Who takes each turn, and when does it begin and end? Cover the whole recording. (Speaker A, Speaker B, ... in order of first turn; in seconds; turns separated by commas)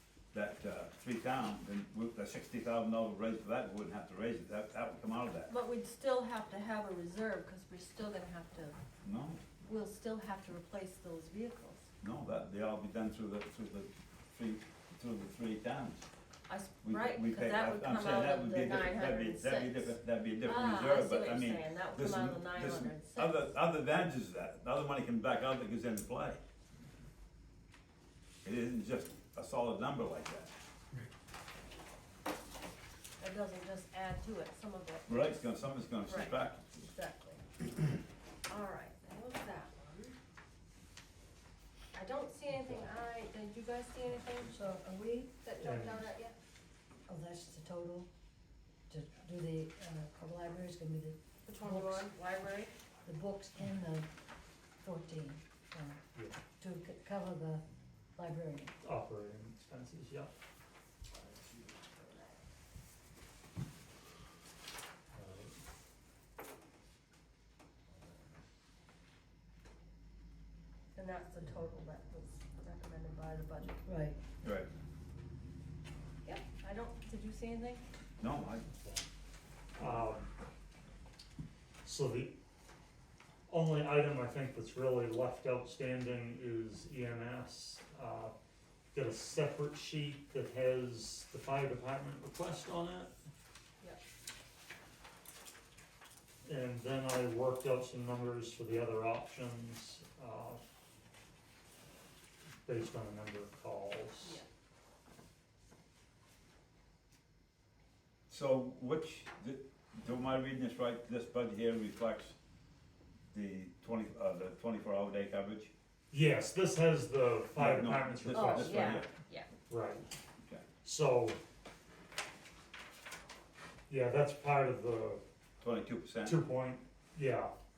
Speaker A: 0.3-5.5, Speaker B: 5.5-8.8, Speaker A: 9.0-9.4, Speaker B: 9.6-11.9, Speaker A: 12.0-16.1, Speaker B: 16.5-23.4, Speaker A: 16.8-26.4, Speaker A: 28.4-30.5, Speaker B: 33.2-35.5, Speaker A: 35.1-36.7, Speaker B: 36.0-37.4, Speaker B: 38.5-40.2, Speaker B: 41.9-44.6, Speaker C: 42.5-42.9, Speaker D: 44.5-45.3, Speaker B: 45.4-46.3, Speaker C: 45.6-46.1, Speaker D: 47.1-48.1, Speaker D: 48.9-52.1, Speaker B: 51.4-52.7, Speaker D: 53.0-54.1, Speaker D: 54.8-56.0, Speaker C: 56.1-56.4, Speaker D: 56.6-57.6, Speaker D: 58.1-58.8, Speaker C: 58.8-60.3, Speaker C: 65.1-65.6, Speaker B: 70.9-73.8, Speaker D: 73.8-74.2, Speaker A: 74.4-74.7, Speaker B: 76.2-77.8, Speaker A: 78.2-78.7, Speaker C: 78.7-79.0, Speaker C: 79.7-80.3, Speaker C: 81.8-82.3, Speaker C: 83.5-88.3, Speaker C: 88.9-93.1, Speaker C: 96.4-100.6, Speaker C: 102.6-104.4, Speaker A: 108.3-112.4, Speaker A: 113.2-115.7, Speaker C: 116.1-119.0, Speaker A: 117.5-119.1, Speaker B: 118.3-119.5, Speaker C: 119.7-120.1, Speaker C: 120.8-121.4, Speaker C: 123.9-125.2, Speaker A: 125.6-126.4, Speaker C: 126.2-127.5